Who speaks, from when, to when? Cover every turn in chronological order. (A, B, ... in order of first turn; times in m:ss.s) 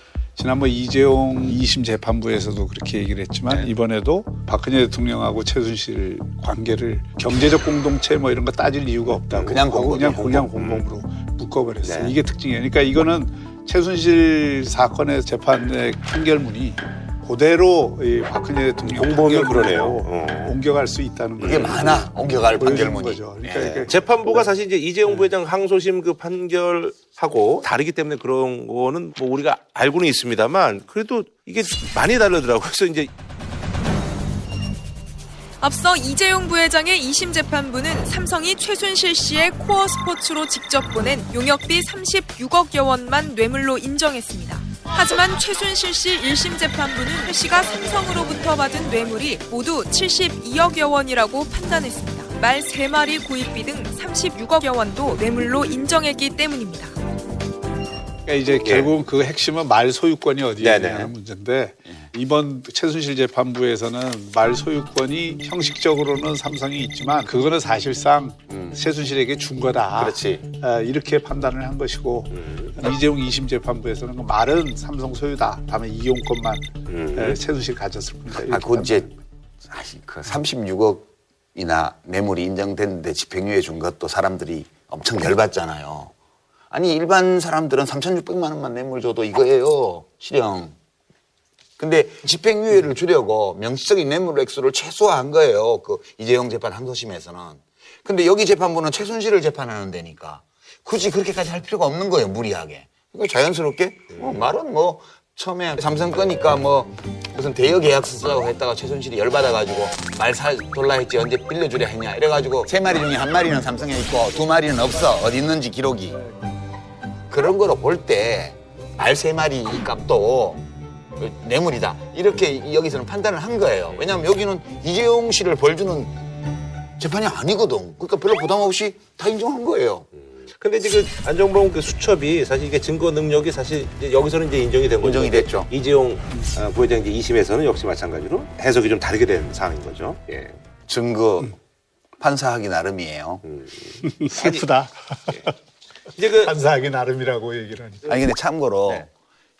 0:00.4-0:24.5 A
0:09.3-0:10.9 B
0:09.5-0:10.4 C
0:11.8-0:12.2 B
0:18.9-0:20.6 B
0:21.4-0:22.0 B
0:21.4-0:23.9 C
0:23.6-0:33.1 B
0:35.6-0:56.9 D
0:55.4-0:55.8 B
0:58.2-1:19.0 A
0:58.6-0:58.9 B
1:00.6-1:01.1 B
1:08.5-1:08.8 C
1:10.0-1:10.4 C
1:12.3-1:12.8 B
1:16.8-1:17.4 B
1:18.4-1:19.1 C
1:19.7-1:26.1 C
1:26.7-1:30.7 C
1:31.8-1:56.2 C
1:44.1-1:44.5 B
1:57.3-2:00.6 C
2:01.2-2:06.1 C
2:03.9-2:04.2 B
2:07.0-2:10.1 C
2:10.4-2:20.6 B
2:15.0-2:15.7 C
2:20.9-2:21.6 C
2:22.2-2:23.4 C
2:23.4-2:24.6 B
2:24.0-2:25.5 A
2:26.1-2:26.5 B
2:26.4-2:28.1 A
2:28.0-2:29.1 C